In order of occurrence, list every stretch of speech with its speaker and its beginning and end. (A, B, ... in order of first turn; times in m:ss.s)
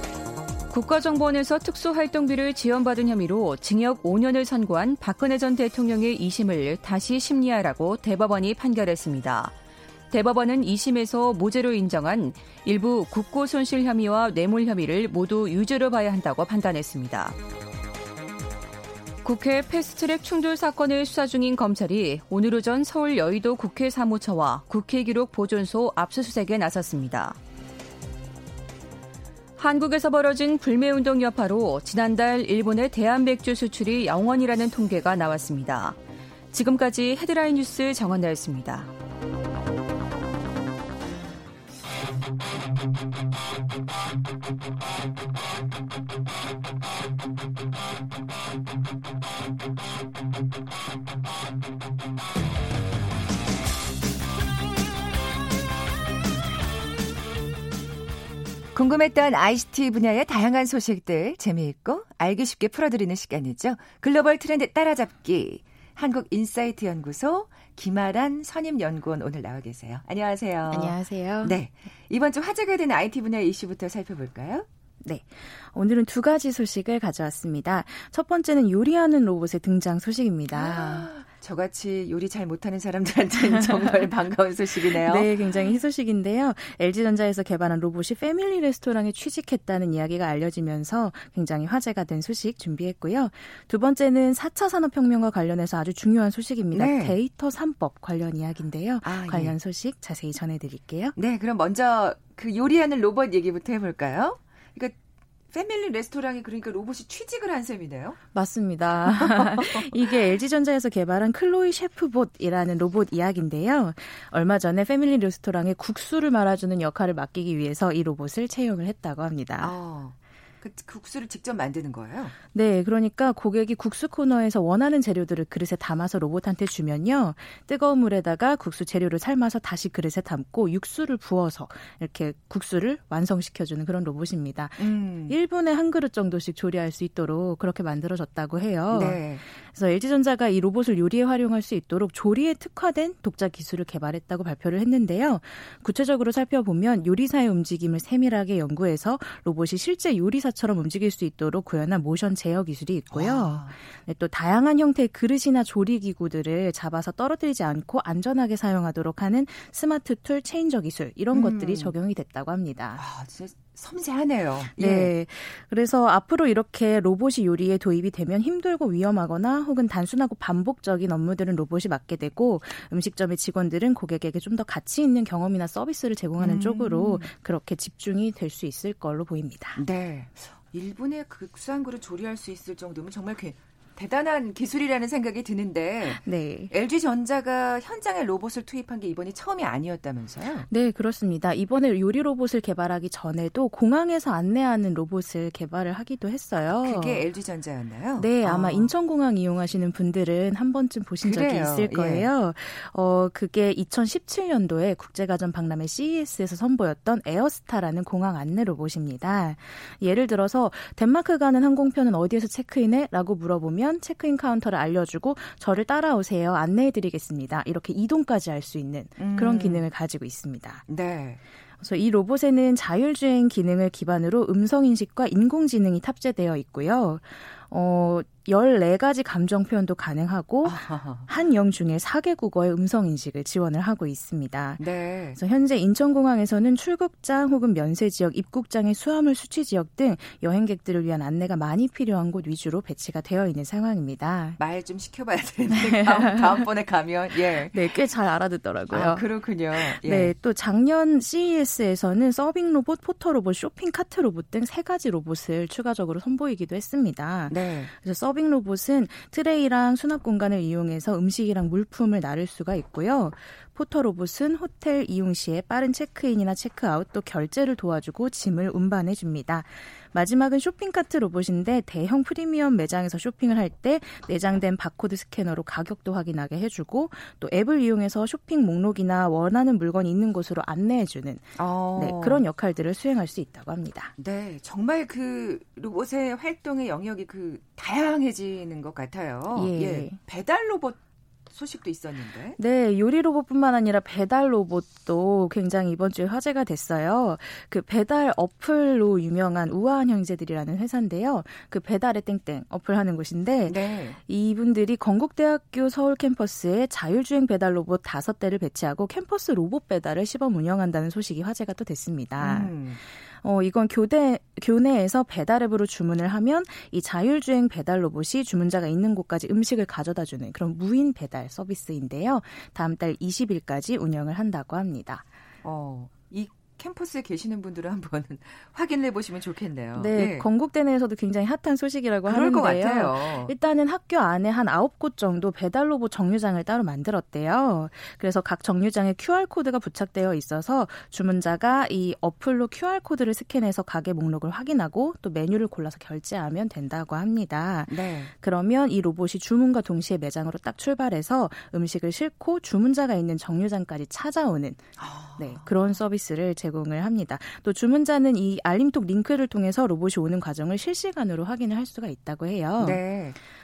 0:00.7-0:09.5 A
0:10.1-0:17.3 A
0:19.2-0:27.4 A
0:29.6-0:36.0 A
0:36.5-0:38.9 A
0:58.7-1:14.6 B
1:10.7-1:11.5 C
1:15.0-1:21.1 C
1:20.5-1:25.3 B
1:23.5-1:23.9 C
1:24.8-1:41.2 C
1:36.7-1:37.2 B
1:39.0-1:39.5 B
1:41.2-1:45.0 B
1:45.5-1:48.2 B
1:48.3-1:59.7 C
1:49.1-1:50.1 B
1:59.6-2:02.3 B
2:02.5-2:43.0 C
2:14.8-2:15.3 B
2:18.9-2:19.4 B
2:33.1-2:33.7 B
2:41.3-2:41.9 B
2:43.0-2:45.1 B
2:44.8-2:59.8 C
2:56.4-2:57.3 B
2:59.8-3:10.7 B
3:06.0-3:06.7 C
3:10.7-3:17.2 C
3:16.6-3:18.9 B
3:18.2-3:40.8 C
3:21.2-3:22.3 B
3:39.2-3:39.8 B
3:40.9-3:41.4 B
3:41.8-3:54.8 C
3:50.6-3:51.3 B
3:54.8-3:55.4 B
3:55.4-4:04.6 C
4:04.6-4:07.9 B
4:05.7-4:06.6 C
4:07.7-4:44.1 C
4:08.9-4:10.3 B
4:17.5-4:17.9 B
4:41.6-4:42.4 B
4:44.2-4:51.0 B
4:49.5-4:50.2 C
4:51.5-4:52.6 B
4:52.6-5:25.2 C
5:03.7-5:04.2 B
5:12.4-5:13.0 B
5:25.6-5:30.4 B
5:30.0-6:03.0 C
5:32.2-5:33.5 B
5:47.9-5:48.3 B
5:55.0-5:55.9 B
6:02.8-6:03.4 B